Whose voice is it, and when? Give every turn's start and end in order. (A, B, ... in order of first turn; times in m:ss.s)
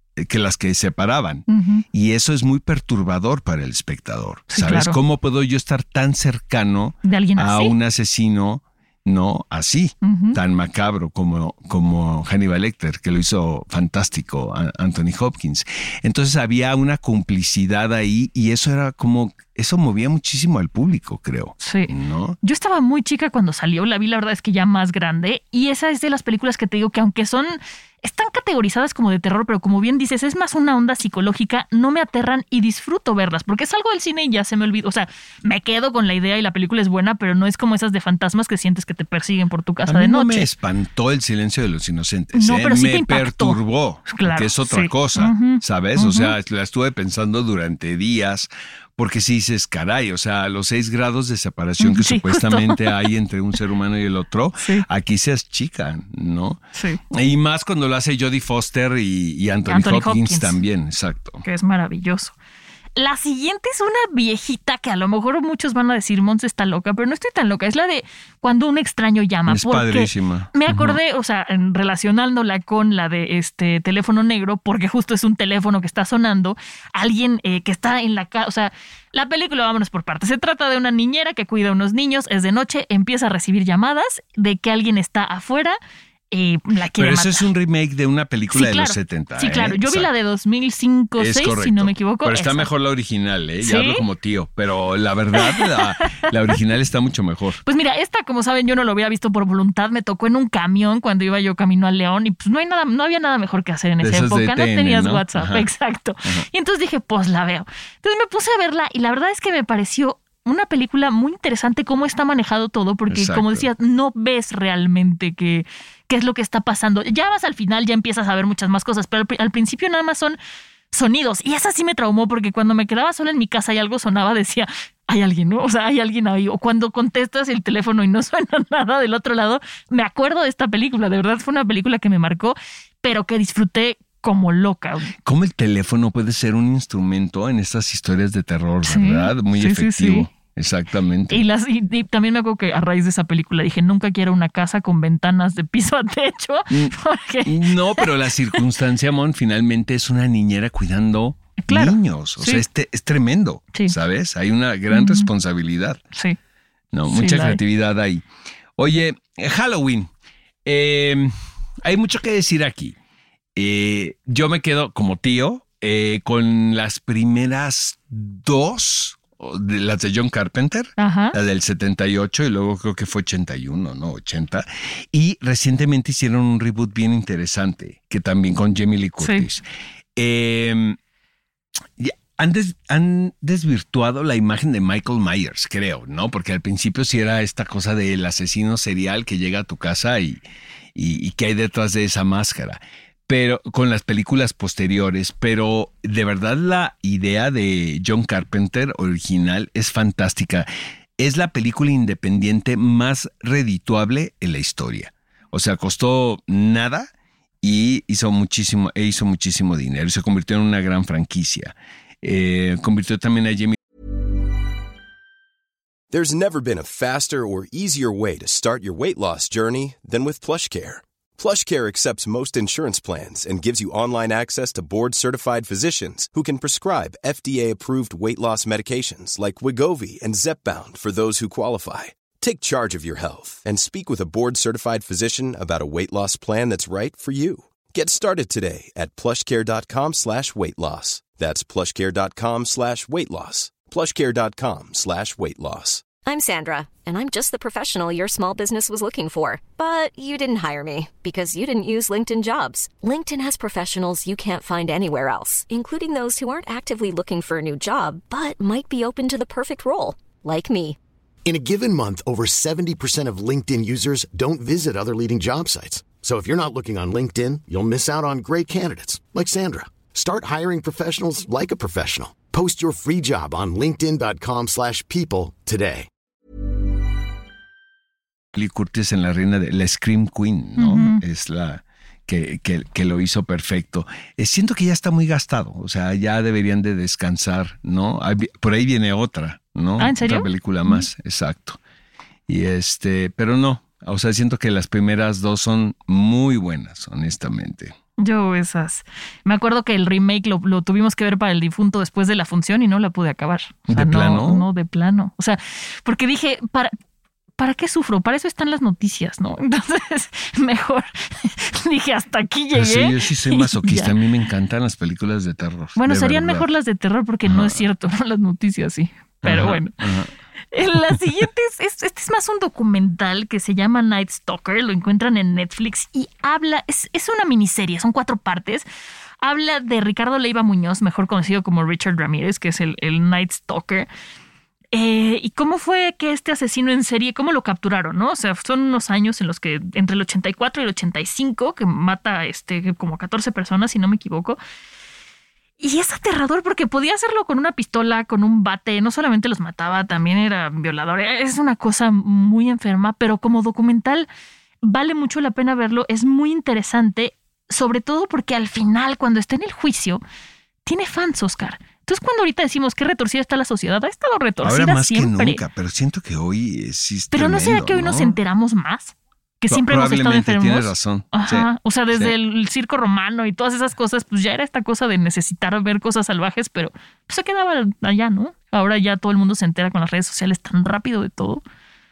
0:00.2-0:22.4 A
0:01.5-0:01.8 B
0:04.5-0:05.0 B
0:07.0-0:07.8 B
0:10.0-0:10.4 B
0:21.6-0:40.5 B
0:39.9-1:01.4 A
0:42.3-0:46.3 B
0:51.8-0:52.9 B
0:54.6-0:54.9 B
0:56.7-0:57.0 B
0:59.7-1:00.6 B
1:01.4-1:02.4 B
1:03.0-1:25.8 B
1:09.5-1:11.0 A
1:26.3-1:27.5 B
1:26.9-1:30.1 A
1:28.5-1:32.7 B
1:31.2-1:37.6 A
1:33.6-1:34.0 B
1:35.4-1:35.8 B
1:37.7-2:00.4 B
1:44.0-1:45.7 A
1:53.1-1:53.7 A
2:00.9-2:15.1 B
2:15.2-2:21.4 A
2:18.8-2:20.3 B
2:21.3-2:28.6 B
2:26.7-2:36.0 A
2:31.6-2:32.6 B
2:34.9-2:35.3 B
2:36.9-2:38.3 A
2:37.1-2:37.6 B
2:38.8-2:40.1 A
2:40.6-2:43.0 A
2:43.6-2:59.6 A
2:51.0-2:51.4 B
2:59.2-2:59.5 B
3:00.2-3:01.0 A
3:02.0-3:10.4 A
3:11.0-3:20.7 A
3:21.2-3:33.8 A
3:36.1-4:06.1 C
4:06.2-4:21.0 D
4:21.5-4:36.1 E
4:38.5-4:51.8 A
4:40.8-4:41.2 B
4:50.0-4:51.1 B
4:52.5-4:58.0 A
4:58.2-5:06.9 B
5:03.9-5:04.7 A
5:07.6-5:14.1 B
5:12.7-5:16.7 A
5:16.0-5:20.0 B
5:17.4-5:17.8 A
5:19.4-5:20.3 A
5:20.7-5:28.9 B
5:21.1-5:21.4 A
5:29.4-5:34.1 B
5:34.9-5:44.6 B
5:45.8-5:54.3 B
5:54.8-6:00.2 B
6:00.8-6:05.6 B
6:04.6-6:08.4 A
6:07.3-6:21.6 B
6:09.7-6:12.3 A